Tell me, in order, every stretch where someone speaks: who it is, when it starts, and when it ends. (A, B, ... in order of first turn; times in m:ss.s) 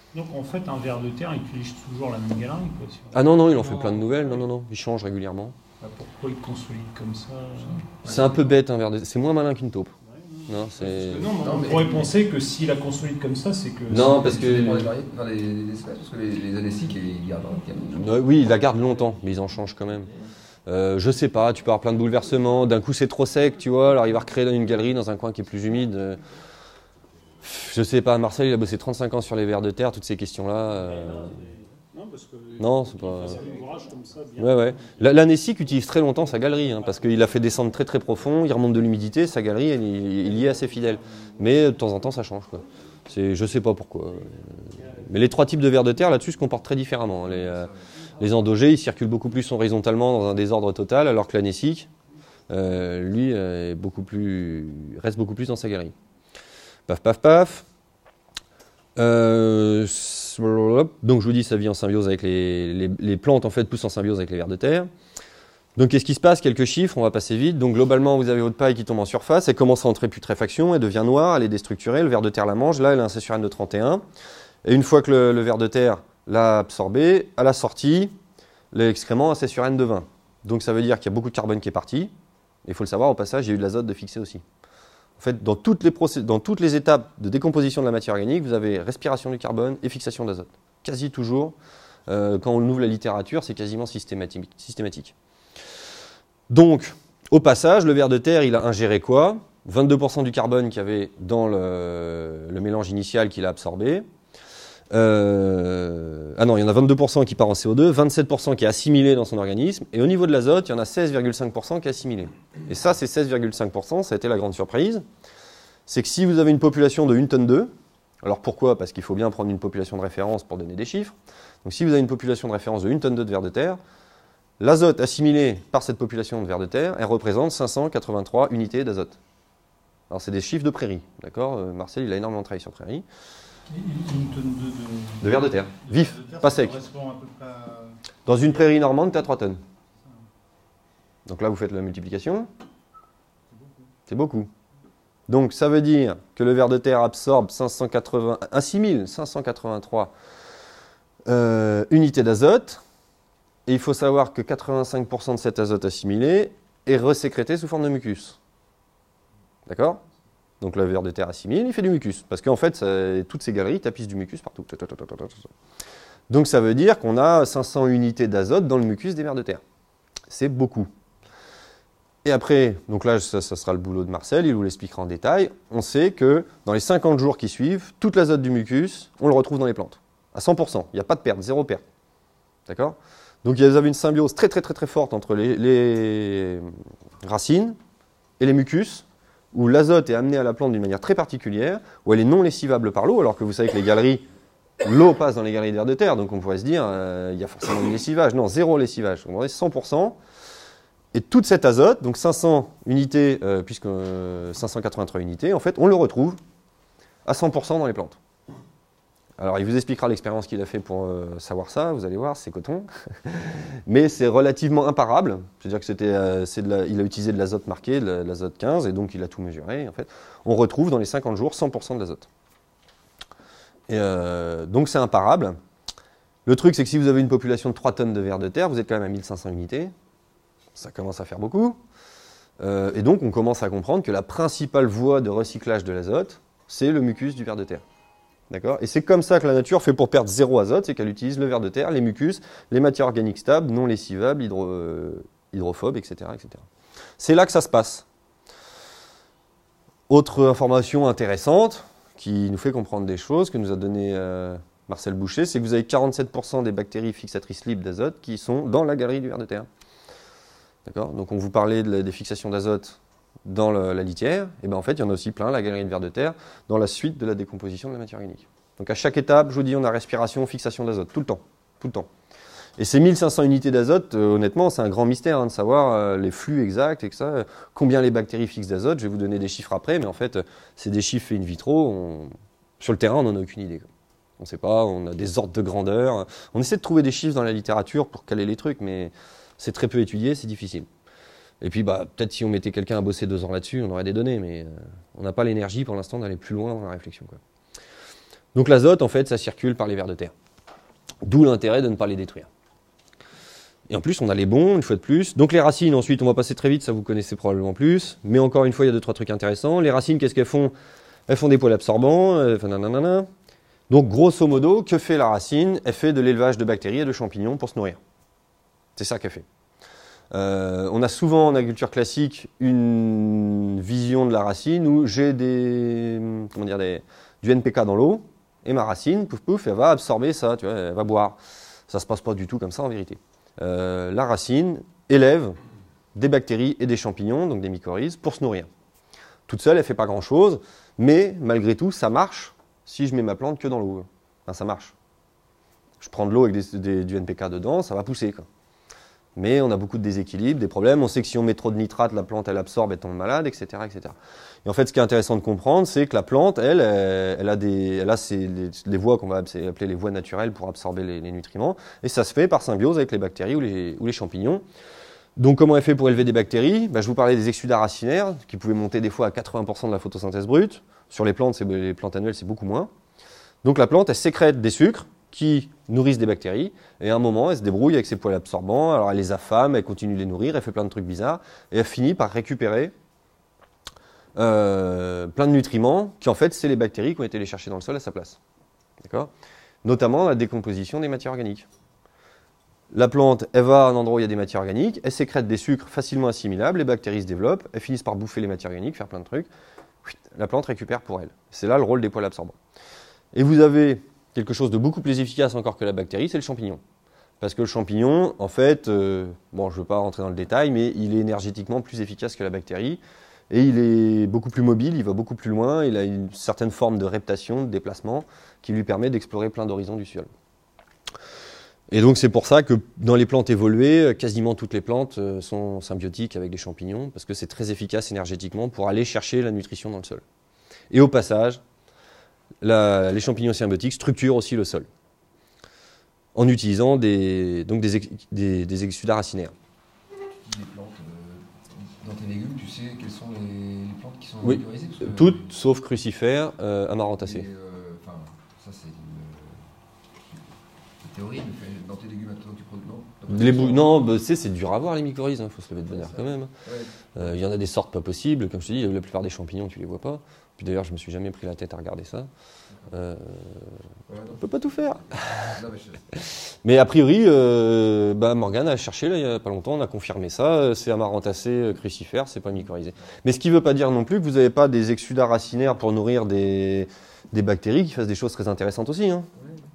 0:00.1-0:04.1 A
0:03.1-0:05.5 B
0:05.8-0:06.0 C
0:06.0-0:07.9 A
0:08.0-0:08.4 C
0:08.0-0:09.9 B
0:10.0-0:14.2 A
0:10.5-0:11.3 B
0:11.4-0:12.1 C
0:13.9-0:14.9 B
0:13.9-0:18.1 C
0:17.9-0:20.1 B
0:20.6-0:26.2 B
0:27.4-0:31.4 B
0:31.0-0:34.8 A
0:32.6-0:33.5 B
0:34.4-0:51.9 B
0:52.5-0:55.9 B
0:56.9-0:57.6 B
0:59.0-1:04.9 B
1:05.8-1:14.0 B
1:14.6-1:18.1 B
1:18.7-1:22.1 B
1:22.6-1:24.4 B
1:25.2-1:31.5 B
1:32.1-1:35.1 B
1:36.5-1:44.0 B
1:44.9-1:55.0 B
1:55.9-1:57.7 B
1:58.2-2:03.8 B
2:04.6-2:09.2 B
2:10.1-2:13.0 B
2:13.7-2:17.9 A
2:15.2-2:16.9 B
2:18.2-2:19.6 B
2:21.2-2:22.5 B
2:24.1-2:24.5 B
2:25.3-2:30.1 B
2:31.3-2:32.8 B
2:33.6-2:38.4 B
2:39.6-2:40.0 B
2:40.6-2:45.5 B
2:46.3-2:49.6 B
2:50.3-2:50.9 B
2:52.2-3:01.8 B
3:02.7-3:06.7 B
3:07.2-3:07.8 B
3:08.4-3:14.2 B
3:14.8-3:20.2 B
3:21.1-3:26.4 B
3:27.2-3:28.2 B
3:29.4-3:42.3 B
3:43.9-3:45.6 B
3:46.4-3:49.9 B
3:50.7-3:51.8 B
3:52.6-3:57.8 B
3:58.5-4:06.6 B
4:07.2-4:08.0 B
4:10.1-4:19.7 B
4:20.8-4:32.1 B
4:32.8-4:43.9 B
4:44.4-4:50.9 B
4:51.6-4:57.4 B
4:58.5-5:00.3 B
5:01.2-5:02.5 B
5:03.9-5:10.7 B
5:11.3-5:13.3 B
5:13.9-5:18.0 B
5:19.0-5:19.4 B
5:20.3-5:31.4 B
5:31.9-5:35.6 B
5:36.1-5:38.7 B
5:39.5-5:44.9 B
5:46.0-5:48.4 B
5:49.4-6:04.6 B
6:05.4-6:12.9 B
6:13.6-6:22.9 B
6:24.4-6:28.4 B
6:29.0-6:29.3 B
6:29.8-6:31.6 B
6:32.9-6:39.5 B
6:40.0-6:42.6 B
6:43.3-6:46.8 B
6:47.4-7:00.3 B
7:01.9-7:10.2 B
7:10.9-7:11.6 B
7:12.6-7:14.9 B
7:16.3-7:19.5 B
7:20.4-7:25.4 C
7:24.4-7:27.4 B
7:27.2-7:29.7 C
7:31.0-7:33.8 C
7:33.3-7:36.5 B
7:35.9-7:37.0 C
7:37.1-7:42.3 B
7:42.9-7:43.7 B
7:44.1-7:46.1 C
7:44.4-7:45.5 B
7:46.3-7:59.3 B
7:59.4-7:59.6 C